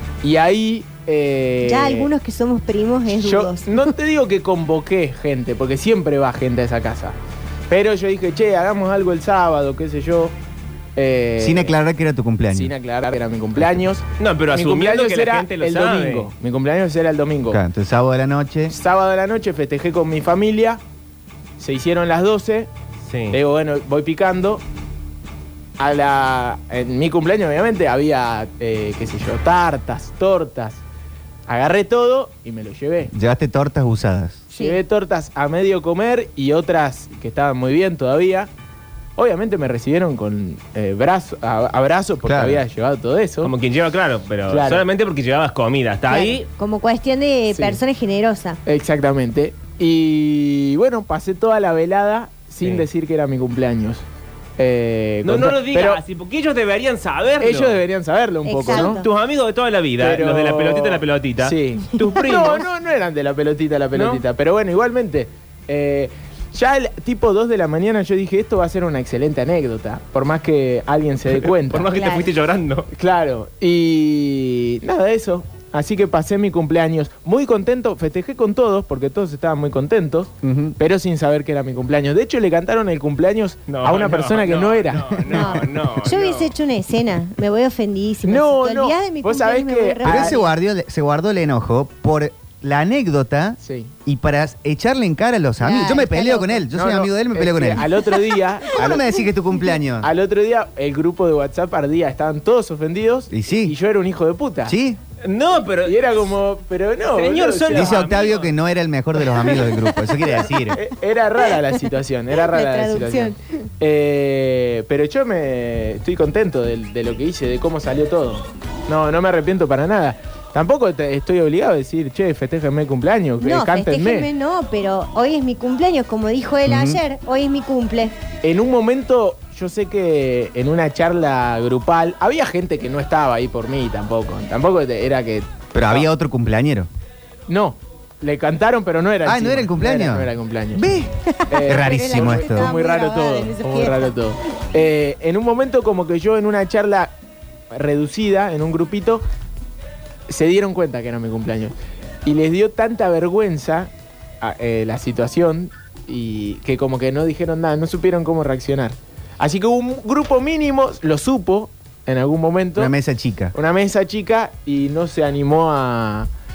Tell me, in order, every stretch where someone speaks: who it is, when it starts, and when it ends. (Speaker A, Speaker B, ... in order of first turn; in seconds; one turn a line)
Speaker A: 0.2-2.1
Speaker B: 1.6-3.9
Speaker A: 3.2-7.2
Speaker A: 7.7-10.3
Speaker A: 11.0-11.8
Speaker C: 11.4-12.7
Speaker A: 12.5-17.6
Speaker C: 13.6-13.8
Speaker D: 14.2-16.3
Speaker C: 17.5-18.8
Speaker A: 18.7-20.8
Speaker A: 21.6-22.7
Speaker D: 23.1-23.4
Speaker A: 23.3-24.6
Speaker A: 25.8-30.8
Speaker A: 31.5-33.1
Speaker C: 33.1-34.5
Speaker B: 34.5-34.8
Speaker A: 34.5-38.5
Speaker A: 39.2-43.5
Speaker C: 42.2-42.6
Speaker D: 43.4-46.5
Speaker A: 44.5-44.9
Speaker B: 46.1-48.6
Speaker A: 47.5-47.8
Speaker A: 48.7-54.0
Speaker D: 52.6-52.9
Speaker A: 54.6-56.0
Speaker D: 55.2-57.8
Speaker A: 57.4-59.0
Speaker B: 58.5-59.1
Speaker D: 58.7-62.7
Speaker A: 60.0-72.0
Speaker D: 63.9-64.2
Speaker D: 71.3-72.9
Speaker B: 71.9-72.3
Speaker A: 72.9-85.7
Speaker C: 80.4-80.8
Speaker D: 83.7-86.5
Speaker B: 85.3-90.5
Speaker A: 88.2-90.3
Speaker C: 90.0-97.9
Speaker A: 93.6-93.9
Speaker B: 95.6-96.7
Speaker A: 96.7-99.0
Speaker B: 98.6-99.2
Speaker C: 98.7-100.1
Speaker A: 100.0-104.8
Speaker C: 103.3-103.7
Speaker C: 104.7-105.0
Speaker D: 105.2-106.2
Speaker A: 105.8-108.0
Speaker D: 107.1-108.5
Speaker C: 107.7-110.8
Speaker A: 109.4-109.6
Speaker A: 110.4-124.3
Speaker B: 112.4-113.6
Speaker B: 123.4-128.2
Speaker C: 126.7-127.0
Speaker A: 128.4-136.1
Speaker C: 135.7-136.9
Speaker A: 137.5-140.9
Speaker C: 139.2-142.7
Speaker B: 141.3-144.1
Speaker A: 141.5-147.1
Speaker A: 147.7-149.2
Speaker A: 150.3-151.7
Speaker A: 152.2-162.9
Speaker C: 162.8-163.6
Speaker A: 163.5-166.3